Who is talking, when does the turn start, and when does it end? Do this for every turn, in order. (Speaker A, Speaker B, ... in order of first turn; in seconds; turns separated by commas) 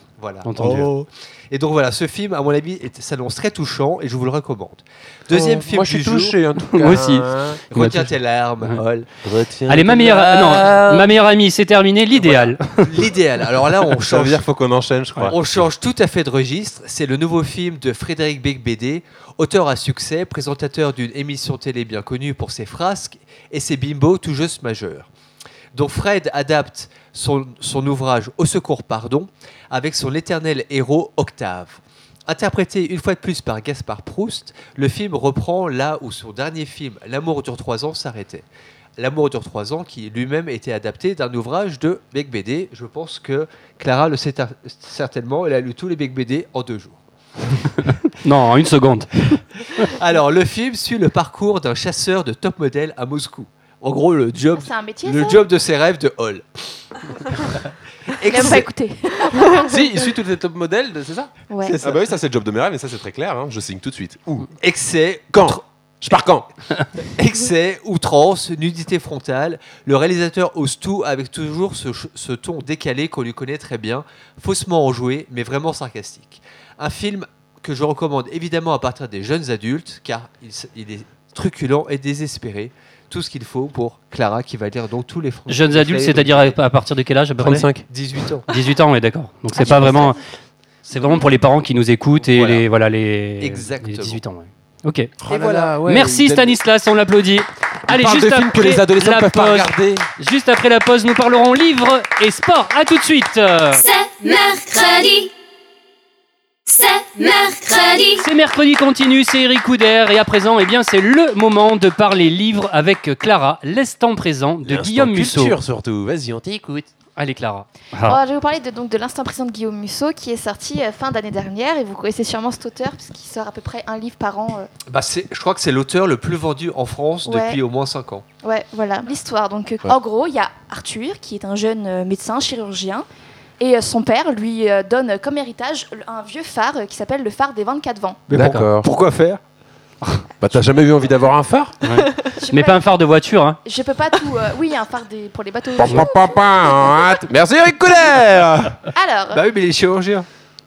Speaker A: 0.1-6.4, Speaker B: 0.4-0.9, Speaker C: 5.3-7.6, Speaker B: 6.7-8.8, Speaker A: 7.7-9.1, Speaker C: 9.2-11.1, Speaker B: 9.7-13.0, Speaker A: 12.2-14.4, Speaker C: 14.0-15.6, Speaker A: 15.2-25.1, Speaker A: 25.7-38.4, Speaker A: 39.0-47.0, Speaker B: 48.2-49.3, Speaker A: 49.8-56.7, Speaker D: 54.5-55.5, Speaker A: 58.2-58.7, Speaker D: 58.2-60.0, Speaker C: 59.6-64.5, Speaker D: 61.5-61.8, Speaker A: 61.6-62.1, Speaker A: 64.5-65.6, Speaker C: 65.3-66.5, Speaker A: 67.0-86.5, Speaker B: 85.5-87.7, Speaker C: 87.4-87.8, Speaker A: 87.9-88.4, Speaker B: 88.5-90.2, Speaker D: 89.6-90.0, Speaker A: 89.6-89.9, Speaker B: 90.8-95.1, Speaker A: 92.2-92.6, Speaker A: 93.4-94.2, Speaker C: 95.2-96.6, Speaker A: 95.3-95.7, Speaker B: 95.8-103.8, Speaker C: 97.9-100.1, Speaker E: 103.8-105.3, Speaker E: 106.7-108.2, Speaker B: 108.2-115.5, Speaker C: 114.6-116.9, Speaker B: 117.2-118.2, Speaker D: 118.0-124.7, Speaker A: 124.9-128.2, Speaker D: 127.2-127.6, Speaker D: 128.4-133.1, Speaker D: 133.6-138.2, Speaker A: 138.3-139.4, Speaker C: 138.3-138.9, Speaker B: 138.3-138.6, Speaker C: 140.4-141.8, Speaker B: 141.8-143.6, Speaker D: 142.4-142.8, Speaker D: 143.6-146.9, Speaker C: 145.8-148.8, Speaker D: 148.9-149.4, Speaker A: 149.3-150.2